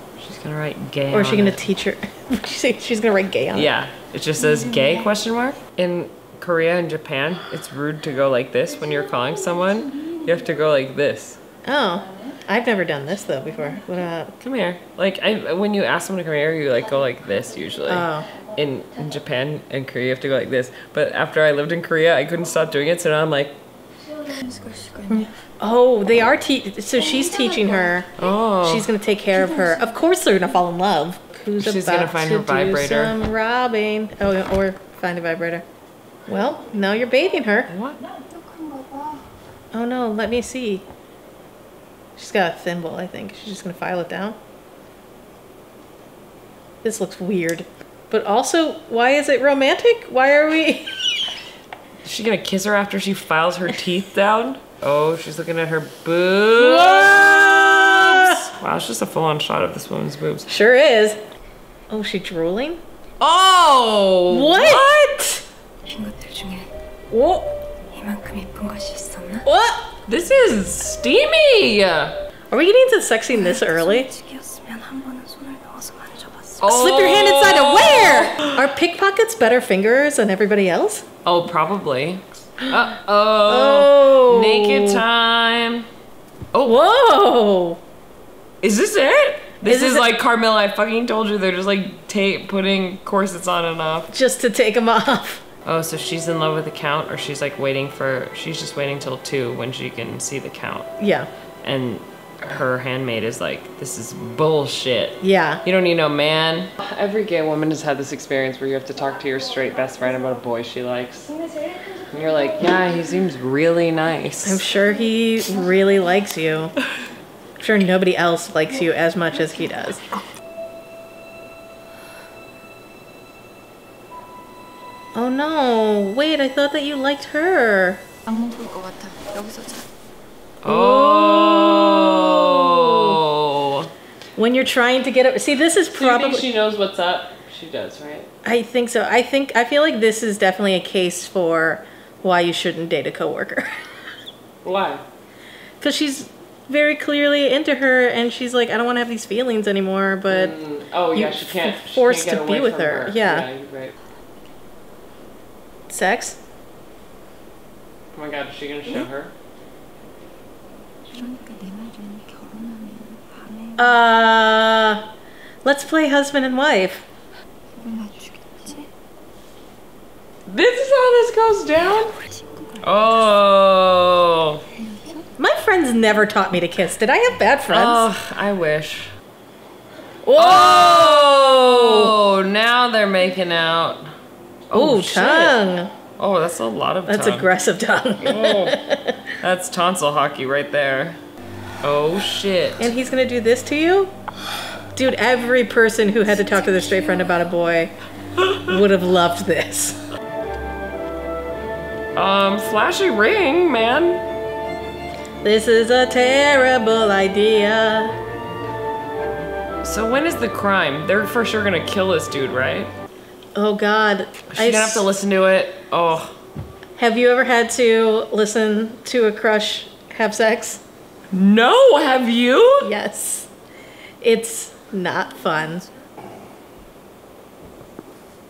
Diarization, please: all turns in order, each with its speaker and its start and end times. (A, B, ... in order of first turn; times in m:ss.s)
0:00.2-0:01.6 A
0:01.1-0:03.7 B
0:03.5-0:11.4 A
0:11.6-0:14.3 B
0:14.4-0:23.6 A
0:17.9-0:18.3 B
0:24.2-0:25.3 C
0:25.6-0:28.1 B
0:28.2-0:28.9 A
0:28.6-0:35.6 B
0:31.6-0:33.1 A
0:36.3-0:37.7 B
0:37.7-0:38.0 A
0:38.2-0:39.2 C
0:39.7-0:40.8 B
0:42.2-0:44.4 B
0:46.8-0:50.9 B
0:52.0-1:00.5 A
0:56.6-0:58.4 B
1:00.5-1:01.2 B
1:01.9-1:02.8 B
1:03.2-1:05.1 A
1:04.3-1:05.4 B
1:05.9-1:06.7 C
1:07.1-1:07.5 B
1:07.9-1:09.5 C
1:09.4-1:09.9 B
1:10.1-1:12.2 A
1:12.5-1:14.1 B
1:13.4-1:16.6 C
1:16.6-1:18.5 A
1:16.6-1:21.0 B
1:21.2-1:25.9 A
1:23.5-1:25.0 B
1:26.5-1:26.8 A
1:26.6-1:27.8 B
1:28.6-1:34.1 A
1:29.6-1:30.1 B
1:34.1-1:35.4 B
1:35.6-1:40.9 A
1:41.0-1:41.3 B
1:41.6-1:51.3 A
1:45.2-1:45.6 B
1:52.1-1:54.6 A
1:54.4-1:56.8 B
1:57.6-2:00.1 B
2:05.1-2:08.0 B
2:08.3-2:09.9 C
2:10.6-2:13.9 A
2:10.7-2:13.2 B
2:14.4-2:16.5 B
2:15.9-2:18.3 A
2:18.4-2:23.7 B
2:24.6-2:25.0 A
2:25.8-2:30.6 B
2:30.3-2:34.0 A
2:31.1-2:33.5 B
2:35.9-2:36.4 B
2:38.1-2:39.3 A
2:41.1-2:43.9 C
2:43.8-2:45.0 B
2:45.6-2:47.0 B
2:47.8-2:48.9 C
2:50.5-2:52.2 A
2:52.8-2:54.6 A
2:54.9-2:55.2 C
2:55.4-2:58.1 B
2:57.7-2:59.1 A
3:00.2-3:02.1 B
3:00.4-3:04.1 A
3:04.7-3:05.6 A
3:04.7-3:05.9 B
3:06.2-3:07.5 A
3:07.1-3:09.3 B
3:08.2-3:08.8 A
3:09.4-3:11.2 A
3:11.8-3:12.9 A
3:12.8-3:14.1 B
3:15.0-3:17.9 B
3:18.6-3:20.0 B
3:22.2-3:24.2 A
3:25.4-3:28.1 B
3:29.8-3:32.9 A
3:33.6-3:35.1 B
3:34.5-3:36.4 A
3:37.0-3:40.8 B
3:41.3-3:42.9 A
3:42.8-3:43.5 B
3:44.2-3:45.8 B